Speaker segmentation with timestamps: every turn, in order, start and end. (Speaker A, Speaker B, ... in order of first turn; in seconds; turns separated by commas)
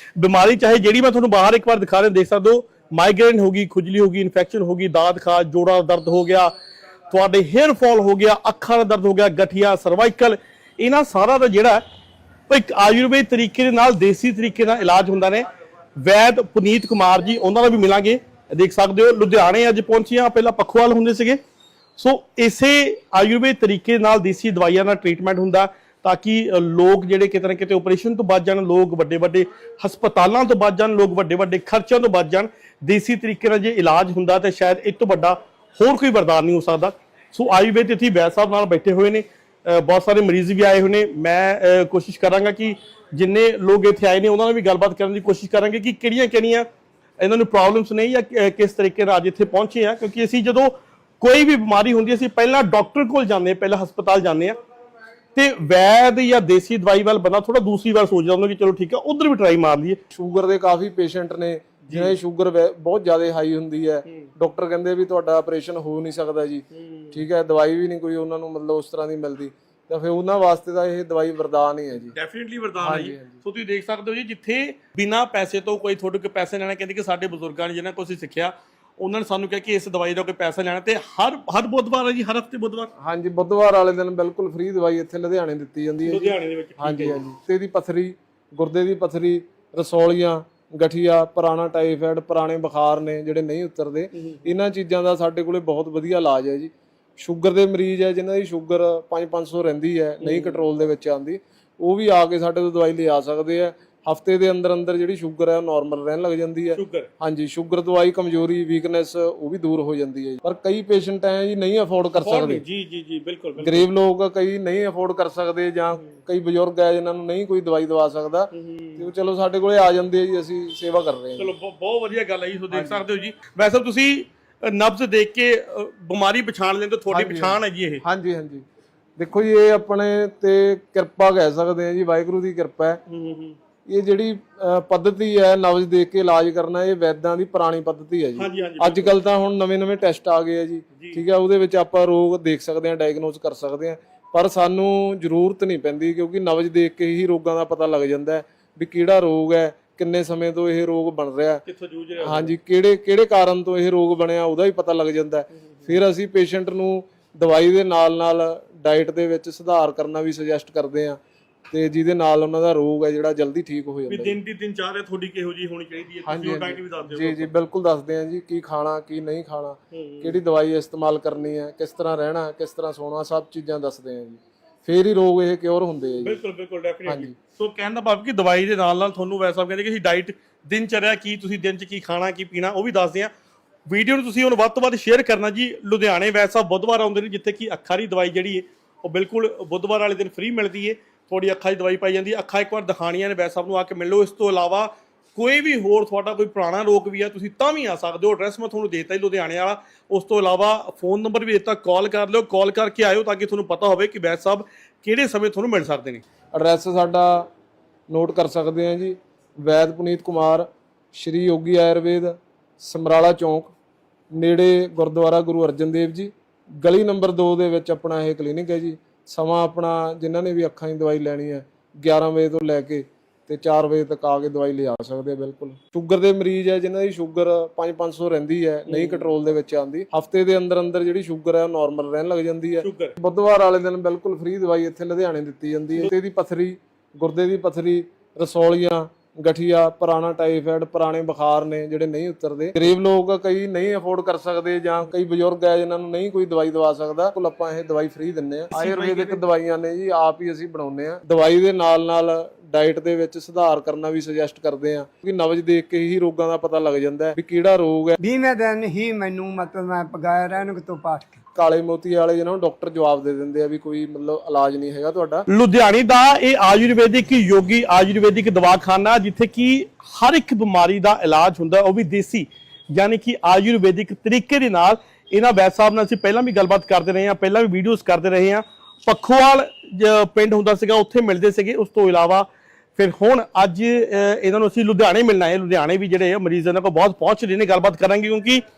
Speaker A: 0.2-6.5, Speaker A: 7.1-11.8, Speaker A: 12.5-21.4, Speaker A: 22.0-46.7, Speaker A: 47.2-54.6, Speaker A: 55.4-60.0, Speaker B: 60.1-72.2, Speaker A: 61.9-62.2, Speaker A: 66.7-67.2, Speaker A: 72.2-82.9, Speaker B: 72.8-73.4, Speaker B: 83.0-112.6, Speaker A: 86.0-87.2, Speaker A: 94.1-94.5, Speaker A: 100.2-100.6, Speaker A: 106.8-107.1, Speaker A: 112.2-113.9, Speaker B: 113.6-121.5, Speaker A: 118.5-119.1, Speaker A: 121.4-128.0, Speaker B: 122.7-123.0, Speaker B: 127.1-128.6, Speaker B: 129.2-133.0, Speaker A: 133.1-133.6, Speaker B: 133.9-151.6, Speaker A: 138.4-139.2, Speaker A: 140.9-141.2, Speaker A: 151.7-152.6, Speaker B: 152.2-161.2, Speaker B: 161.7-164.4, Speaker A: 164.1-167.5, Speaker B: 166.2-176.4, Speaker A: 169.9-170.4, Speaker A: 176.2-183.3, Speaker B: 177.1-177.3, Speaker A: 183.9-206.2, Speaker B: 206.5-207.5, Speaker B: 208.1-213.7, Speaker B: 214.3-258.2, Speaker A: 228.9-229.3, Speaker A: 232.8-233.2, Speaker A: 248.7-249.4, Speaker C: 258.2-261.4, Speaker B: 261.6-265.5, Speaker A: 265.5-288.6